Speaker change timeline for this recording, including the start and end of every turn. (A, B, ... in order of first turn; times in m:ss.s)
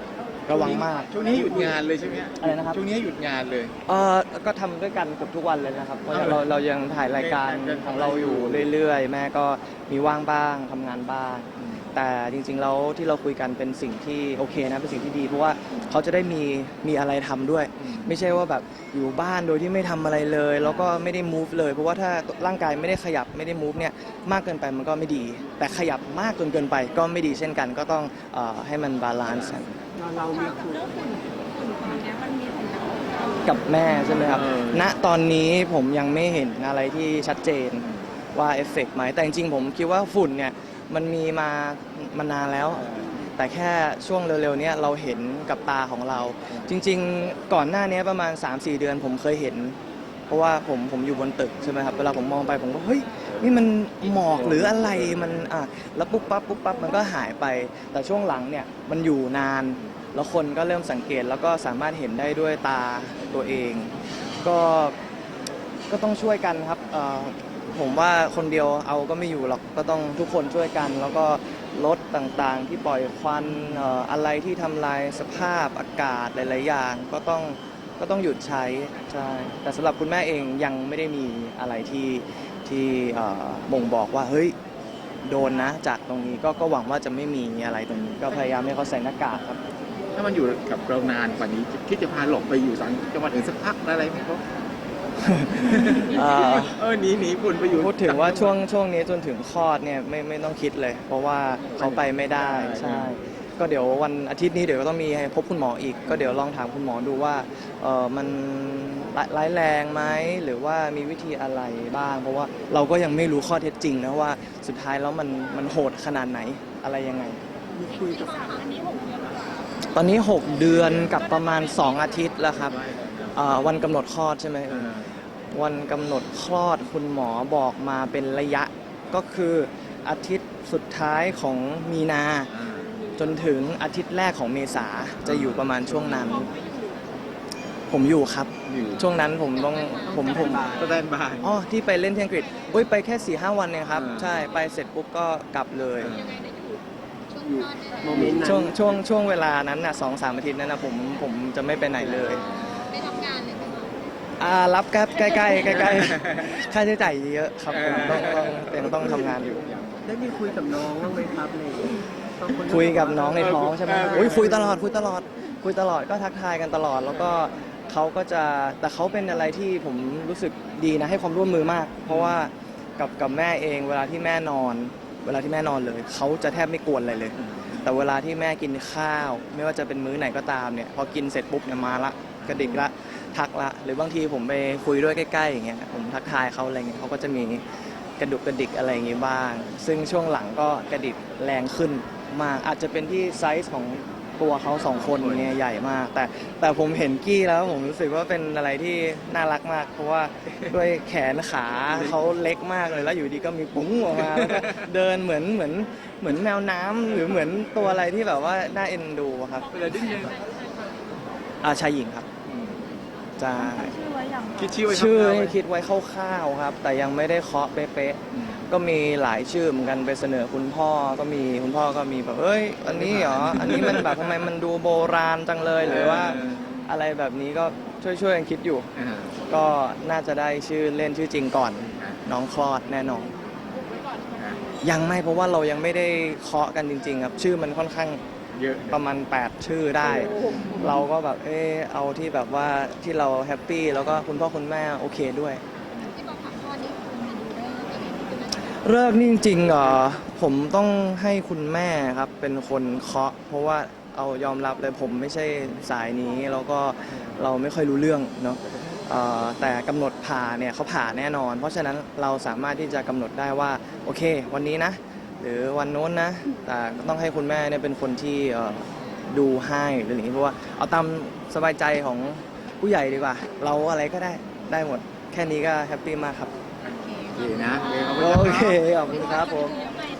0:00.5-0:01.1 A
0:00.5-0:03.7 B
0:02.4-0:02.8 A
0:03.9-0:29.7 A
0:06.1-0:06.4 B
0:07.2-0:08.7 B
0:17.8-0:18.1 B
0:30.0-0:31.0 C
0:31.0-0:33.4 D
0:33.4-0:49.8 A
0:34.2-0:34.9 B
0:50.3-1:04.9 A
1:05.9-1:24.5 A
1:25.2-1:29.6 A
1:30.1-1:34.4 B
1:35.2-1:36.8 A
1:35.6-1:38.6 B
1:37.7-1:57.4 A
1:41.7-1:43.1 B
1:46.1-1:46.4 B
1:57.8-1:58.2 C
1:58.0-1:59.1 E
1:59.9-2:02.8 A
2:02.7-2:03.4 B
2:03.3-2:04.9 A
2:04.7-2:05.1 B
2:05.5-2:12.5 A
2:12.5-2:12.9 B
2:13.2-2:16.5 A
2:15.2-2:16.5 B
2:17.9-2:20.7 A
2:18.6-2:19.2 B
2:19.6-2:20.7 E
2:20.1-2:20.9 C
2:20.6-2:21.5 B
2:21.4-2:26.2 A
2:23.9-2:24.4 B
2:26.0-2:26.4 B
2:27.3-2:28.4 E
2:28.0-2:28.7 C
2:28.4-2:32.4 A
2:32.4-2:34.1 E
2:34.4-2:39.5 A
2:35.9-2:36.4 B
2:37.7-2:40.1 B
2:40.0-2:43.4 C
2:42.7-3:07.6 A
2:43.4-2:44.6 B
2:44.0-2:44.8 C
2:52.1-2:52.4 B
2:57.5-2:57.8 B
3:08.2-3:29.7 A
3:15.0-3:15.5 B
3:24.2-3:24.8 B
3:29.7-3:30.4 B
3:31.6-3:32.3 A
3:32.4-3:32.9 B
3:33.4-3:34.0 A
3:33.6-3:34.7 D
3:34.5-3:35.6 B
3:34.9-3:48.9 A
3:38.3-3:38.6 B
3:42.8-3:44.1 B
3:45.8-3:46.7 B
3:48.9-3:49.4 B
3:49.5-3:53.3 A
3:51.8-3:52.2 B
3:54.8-3:58.2 A
3:58.5-3:59.0 B
3:58.9-4:05.6 A
4:00.4-4:00.9 B
4:06.1-4:08.8 E
4:08.7-4:36.5 A
4:37.0-4:38.4 E
4:37.3-4:38.8 B
4:38.1-4:39.8 A